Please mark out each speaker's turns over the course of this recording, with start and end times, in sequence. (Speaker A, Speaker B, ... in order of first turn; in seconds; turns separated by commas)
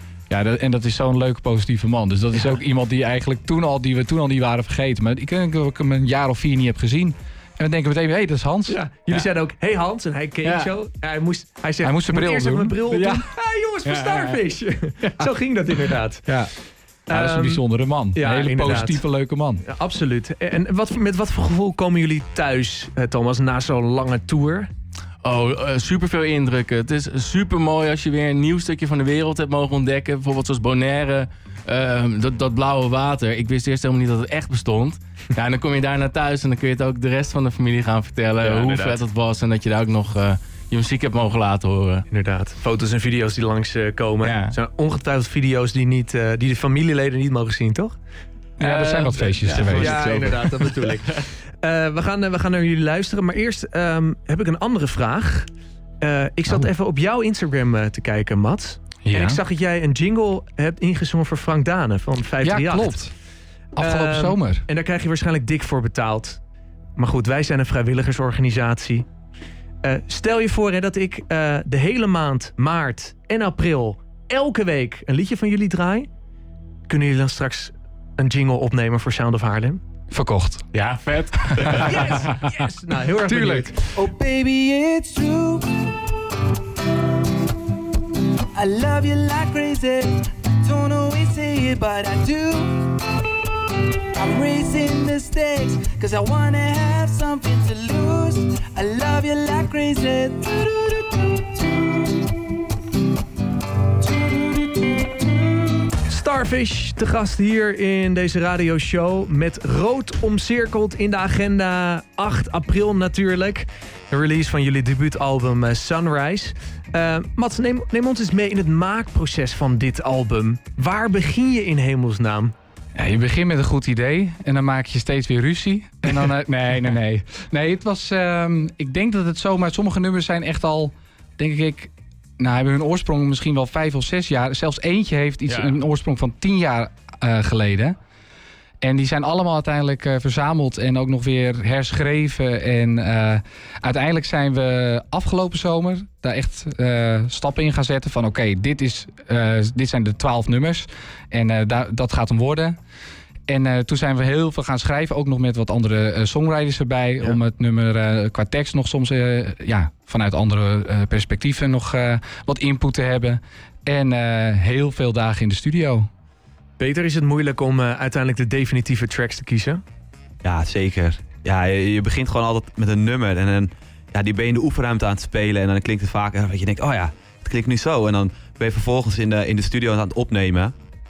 Speaker A: 0.3-9.2, Speaker B: 8.7-16.3, Speaker C: 10.4-10.7, Speaker A: 11.8-13.3, Speaker C: 13.8-14.4, Speaker A: 16.3-16.5, Speaker B: 17.1-17.6, Speaker A: 17.1-19.6, Speaker B: 18.1-19.0, Speaker B: 19.6-24.7, Speaker C: 25.2-42.0, Speaker B: 38.4-39.0, Speaker B: 42.1-47.9, Speaker C: 44.2-44.5, Speaker C: 48.6-50.9, Speaker A: 48.6-50.2, Speaker B: 49.5-55.5, Speaker B: 56.0-63.0, Speaker A: 59.0-59.4, Speaker A: 62.4-63.1, Speaker A: 63.8-64.6, Speaker B: 63.8-66.4, Speaker B: 67.0-69.1, Speaker B: 69.8-76.1, Speaker B: 76.9-79.8, Speaker A: 80.1-80.7, Speaker C: 80.7-82.0, Speaker A: 81.4-82.6, Speaker B: 81.6-83.9, Speaker A: 83.2-83.7, Speaker D: 83.9-85.9, Speaker D: 88.5-93.2, Speaker D: 93.9-102.2, Speaker D: 104.0-105.1, Speaker B: 106.0-122.5, Speaker A: 123.0-137.9, Speaker C: 135.5-135.8, Speaker A: 138.8-152.8, Speaker A: 153.5-166.1, Speaker B: 166.8-169.8, Speaker E: 170.4-180.7